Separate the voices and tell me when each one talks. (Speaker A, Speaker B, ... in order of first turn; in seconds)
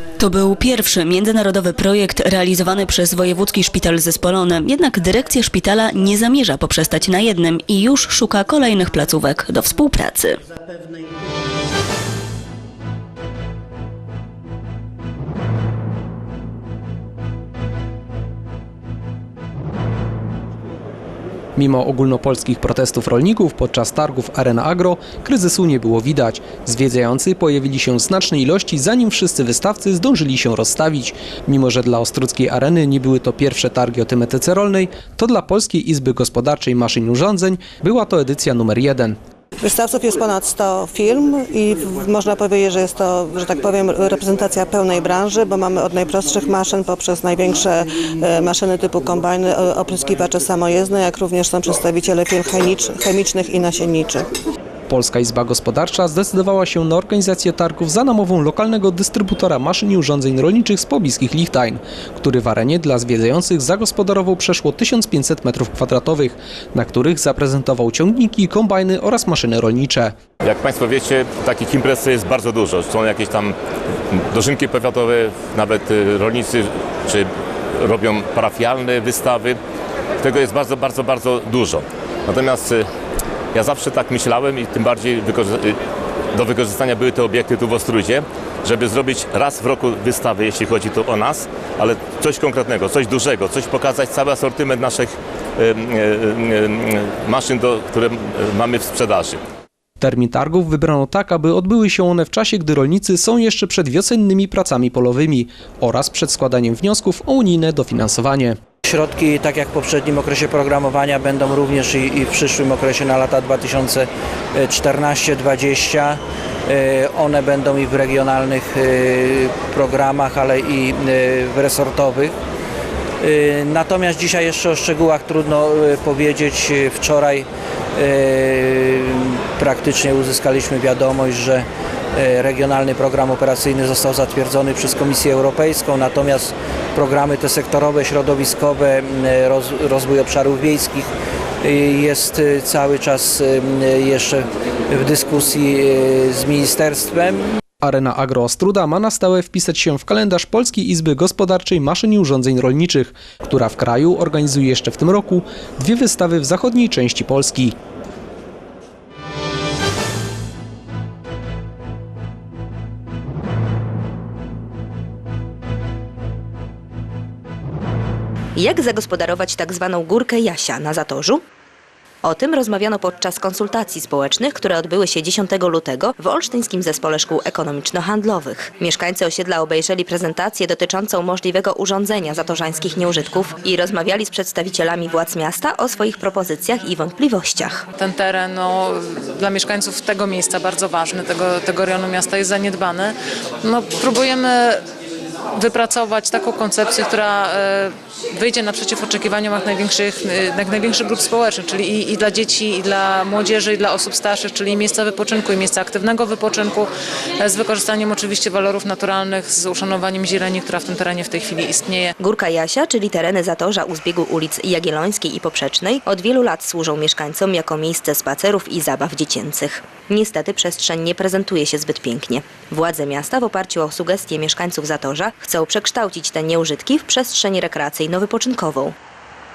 Speaker A: 0.2-10.4
Speaker B: 21.6-39.2, 54.9-70.1, 100.0-108.6, 147.8-157.8
Speaker C: 39.6-54.2
Speaker D: 70.5-73.5, 74.3-76.6, 77.8-79.6, 80.2-81.8, 82.3-82.7, 83.6-85.4, 86.4-88.2, 88.7-95.1, 97.3-99.4
Speaker E: 108.9-114.1, 114.6-116.2, 116.7-122.3, 123.3-127.5, 128.0-128.8, 129.6-131.6, 132.2-141.1, 141.7-144.4, 145.0-147.4
Speaker F: 168.6-171.4, 172.2-187.9, 212.2-228.9
Speaker G: 188.0-194.8, 195.6-212.1